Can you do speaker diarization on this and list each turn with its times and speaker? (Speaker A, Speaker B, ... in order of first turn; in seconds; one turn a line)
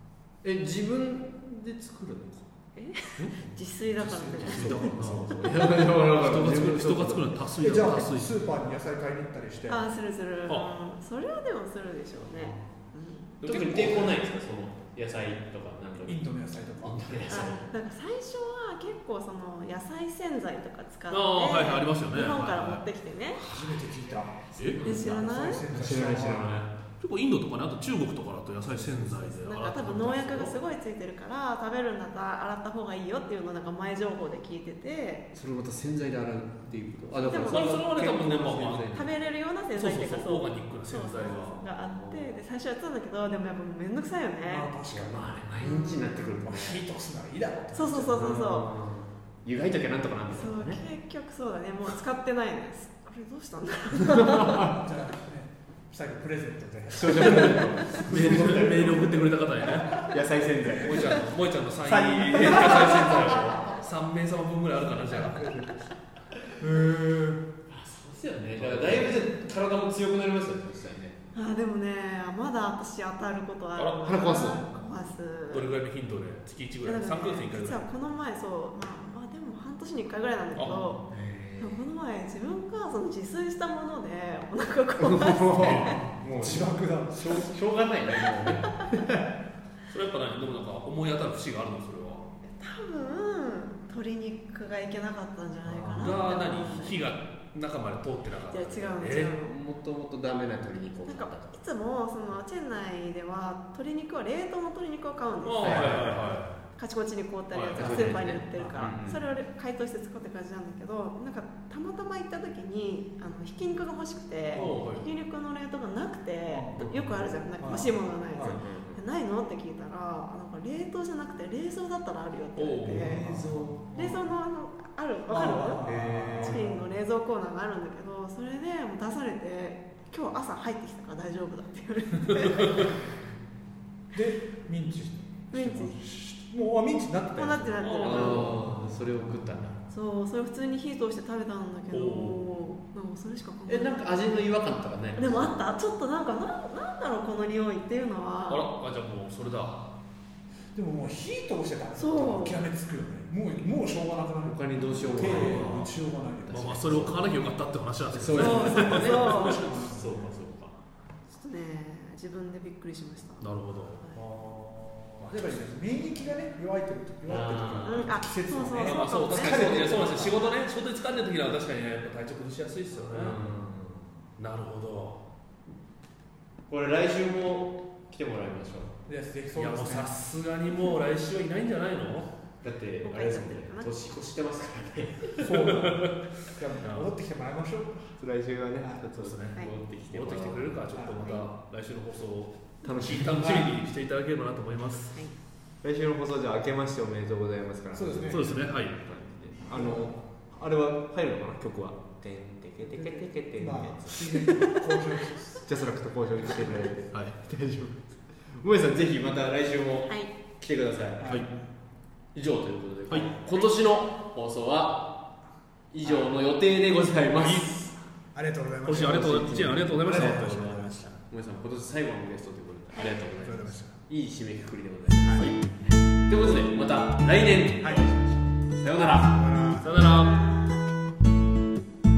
Speaker A: 0.4-2.5
Speaker B: 2.8-5.0
Speaker C: 3.8-5.7
Speaker D: 4.5-8.3
Speaker A: 5.0-7.4
Speaker C: 7.6-9.8
Speaker B: 9.7-13.4
Speaker A: 12.3-12.6
Speaker D: 13.4-14.2
Speaker A: 13.4-17.7
Speaker C: 16.0-17.5
Speaker B: 17.3-23.4
Speaker D: 21.1-22.8
Speaker C: 23.4-26.5
Speaker D: 24.6-24.9
Speaker A: 24.6-26.7
Speaker B: 24.8-25.6
Speaker D: 27.0-30.6
Speaker A: 28.8-29.3
Speaker B: 29.4-35.2
Speaker A: 35.3-39.1
Speaker B: 37.2-37.8
Speaker D: 37.4-39.1
Speaker B: 38.9-44.7
Speaker D: 39.7-41.6
Speaker A: 41.2-42.4
Speaker C: 44.4-45.5
Speaker A: 44.9-46.8
Speaker B: 45.6-46.4
Speaker C: 46.4-48.4
Speaker B: 47.7-48.7
Speaker A: 48.1-50.8
Speaker B: 50.3-54.7
Speaker A: 54.0-54.8
Speaker C: 54.5-58.9
Speaker A: 56.9-61.3
Speaker D: 57.1-60.1
Speaker C: 59.7-60.0
Speaker D: 60.7-65.7
Speaker C: 61.8-63.4
Speaker B: 62.7-63.2
Speaker C: 65.1-65.8
Speaker C: 66.6-67.5
Speaker A: 67.7-71.2
Speaker D: 68.5-69.2
Speaker B: 71.3-75.7
Speaker D: 73.8-74.3
Speaker A: 74.0-74.7
Speaker C: 74.4-74.9
Speaker D: 75.5-77.8
Speaker B: 76.8-81.0
Speaker D: 80.5-80.9
Speaker A: 81.1-81.8
Speaker B: 81.6-85.9
Speaker A: 85.0-88.8
Speaker C: 85.5-87.5
Speaker C: 88.9-89.2
Speaker D: 89.9-92.3
Speaker B: 92.5-97.0
Speaker A: 95.7-96.1
Speaker D: 96.0-99.4
Speaker B: 98.5-99.5
Speaker A: 99.4-101.6
Speaker B: 101.0-106.2
Speaker D: 105.4-106.5
Speaker A: 105.6-106.2
Speaker B: 106.8-123.2
Speaker D: 107.5-108.9
Speaker A: 107.8-109.2
Speaker D: 114.5-115.0
Speaker C: 116.5-118.6
Speaker A: 118.4-119.0
Speaker D: 122.6-123.3
Speaker C: 122.8-124.2
Speaker A: 122.9-123.8
Speaker B: 123.9-132.9
Speaker C: 125.3-127.0
Speaker A: 125.8-126.7
Speaker D: 132.3-132.9
Speaker C: 134.1-137.8
Speaker B: 135.5-135.9
Speaker B: 137.3-138.6
Speaker D: 137.8-138.6
Speaker A: 138.0-139.8
Speaker B: 139.9-144.4
Speaker D: 141.9-142.4
Speaker A: 143.7-145.6
Speaker B: 145.2-148.7
Speaker D: 148.5-149.9
Speaker C: 150.7-157.2
Speaker B: 152.0-152.6
Speaker A: 154.4-157.3
Speaker B: 154.8-155.7
Speaker D: 156.5-159.7
Speaker A: 158.1-160.8
Speaker B: 158.3-159.6
Speaker C: 158.5-160.4
Speaker B: 161.3-163.5
Speaker D: 163.4-164.0
Speaker B: 164.0-164.2
Speaker C: 164.1-170.4
Speaker A: 167.3-168.2
Speaker B: 167.8-170.5
Speaker D: 168.8-173.4
Speaker A: 172.9-174.2
Speaker D: 174.4-175.2
Speaker A: 176.7-178.9
Speaker C: 179.1-180.1
Speaker D: 179.5-182.3
Speaker A: 182.6-185.5
Speaker B: 183.0-183.9
Speaker C: 185.4-188.1
Speaker D: 185.5-186.2
Speaker D: 186.8-187.1
Speaker A: 188.2-190.8
Speaker D: 189.2-195.2
Speaker C: 190.9-191.3
Speaker A: 192.8-193.7
Speaker A: 195.8-204.4
Speaker C: 197.9-198.6
Speaker D: 198.3-199.0
Speaker C: 199.7-200.1
Speaker C: 202.9-205.6
Speaker B: 204.4-204.8
Speaker A: 205.6-211.3
Speaker C: 206.6-206.9
Speaker B: 210.1-210.3
Speaker C: 211.2-211.6
Speaker A: 212.3-215.2
Speaker A: 215.9-217.7
Speaker C: 216.0-216.3
Speaker C: 217.4-217.7
Speaker C: 218.3-221.1
Speaker D: 218.8-221.2
Speaker A: 219.0-220.4
Speaker A: 221.3-229.4
Speaker C: 223.3-223.9
Speaker C: 225.2-225.6
Speaker C: 227.8-228.1
Speaker C: 229.2-230.0
Speaker D: 229.8-230.5
Speaker B: 230.0-230.8